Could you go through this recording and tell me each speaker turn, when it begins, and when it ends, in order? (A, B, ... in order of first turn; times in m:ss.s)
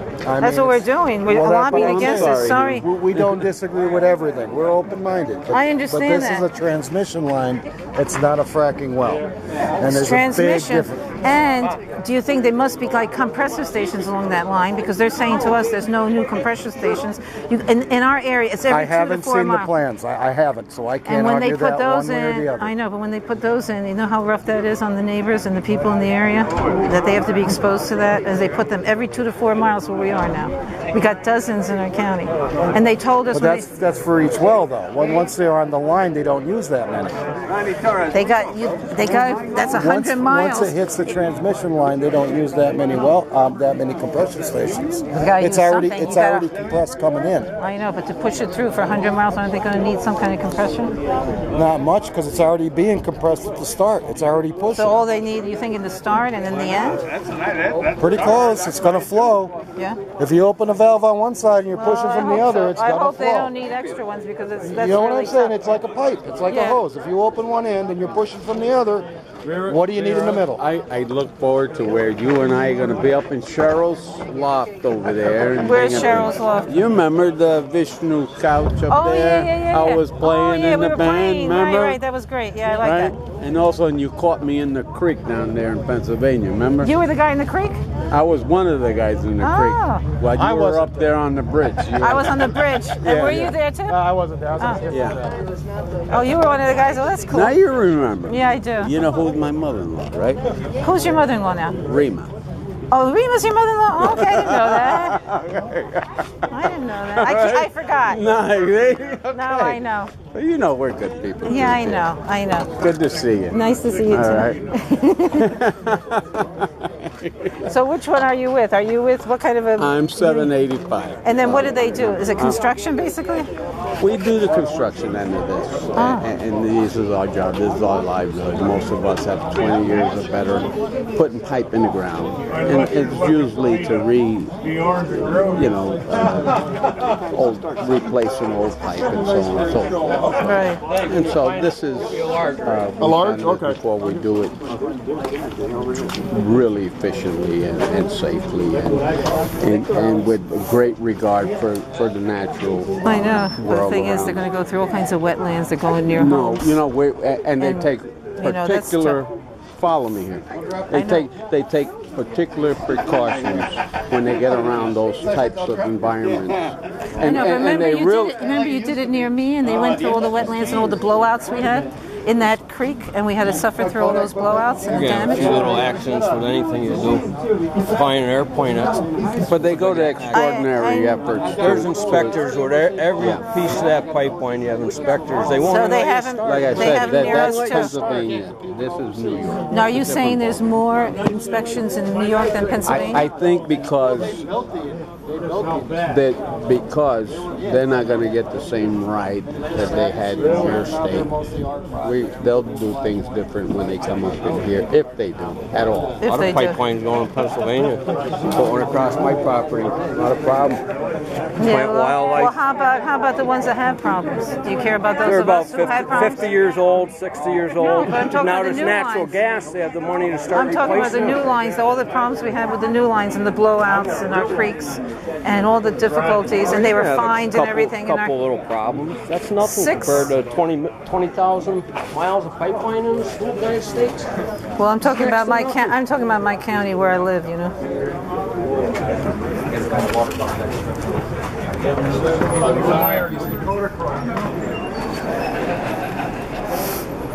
0:00.2-0:11.2 A
0:00.4-0:02.8 B
0:01.7-0:03.4 C
0:05.5-0:06.5 B
0:09.8-0:19.7 B
0:18.7-0:22.7 A
0:21.0-0:33.7 B
0:33.3-0:37.2 A
0:38.1-0:40.8 B
0:39.3-0:47.5 A
0:45.1-0:46.5 B
0:47.6-0:51.0 B
0:51.5-0:55.0 A
0:54.7-0:57.1 B
0:57.9-0:59.5 A
1:00.2-1:03.5 A
1:01.7-1:05.6 B
1:04.6-1:09.1 A
1:06.5-1:06.8 B
1:09.5-1:22.0 C
1:09.6-1:10.6 A
1:15.6-1:16.7 B
1:18.9-1:23.1 B
1:22.8-1:26.9 C
1:26.8-1:27.8 B
1:28.1-1:33.5 C
1:29.4-1:30.1 B
1:30.3-1:30.9 A
1:32.0-1:34.0 B
1:33.9-1:35.5 A
1:34.6-1:34.8 B
1:34.9-1:35.2 C
1:36.1-1:37.6 B
1:37.3-1:40.5 C
1:38.3-1:38.9 B
1:40.8-1:41.8 B
1:41.8-1:42.3 C
1:42.9-1:45.2 B
1:44.0-1:52.1 C
1:46.5-1:48.2 B
1:49.3-1:50.1 B
1:51.4-1:52.7 B
1:52.7-1:54.6 C
1:53.5-1:55.6 B
1:55.3-1:57.5 C
1:57.6-2:00.5 B
1:59.8-2:02.6 C
2:01.2-2:03.5 B
2:04.0-2:16.6 C
2:06.0-2:06.2 B
2:17.2-2:24.6 C
2:20.4-2:20.8 B
2:22.2-2:22.6 D
2:23.0-2:23.7 A
2:26.2-2:29.0 C
2:29.6-2:34.4 C
2:33.0-2:36.8 B
2:36.1-2:48.4 C
2:37.6-2:39.2 B
2:40.9-2:41.3 B
2:47.2-2:55.7 B
2:54.9-3:00.5 D
2:59.5-3:02.4 C
3:00.3-3:01.2 B
3:01.4-3:07.8 D
3:03.2-3:03.4 C
3:05.6-3:08.0 B
3:06.4-3:10.6 C
3:09.7-3:13.2 B
3:12.8-3:14.5 C
3:15.8-3:21.4 C
3:22.0-3:26.2 C
3:26.2-3:26.8 B
3:26.2-3:30.8 D
3:31.6-3:36.4 B
3:31.6-3:32.5 D
3:35.2-3:41.4 D
3:37.8-3:39.4 B
3:40.5-3:48.4 B
3:46.6-3:54.3 D
3:49.6-3:50.3 B
3:54.8-3:57.7 B
3:55.0-3:55.9 D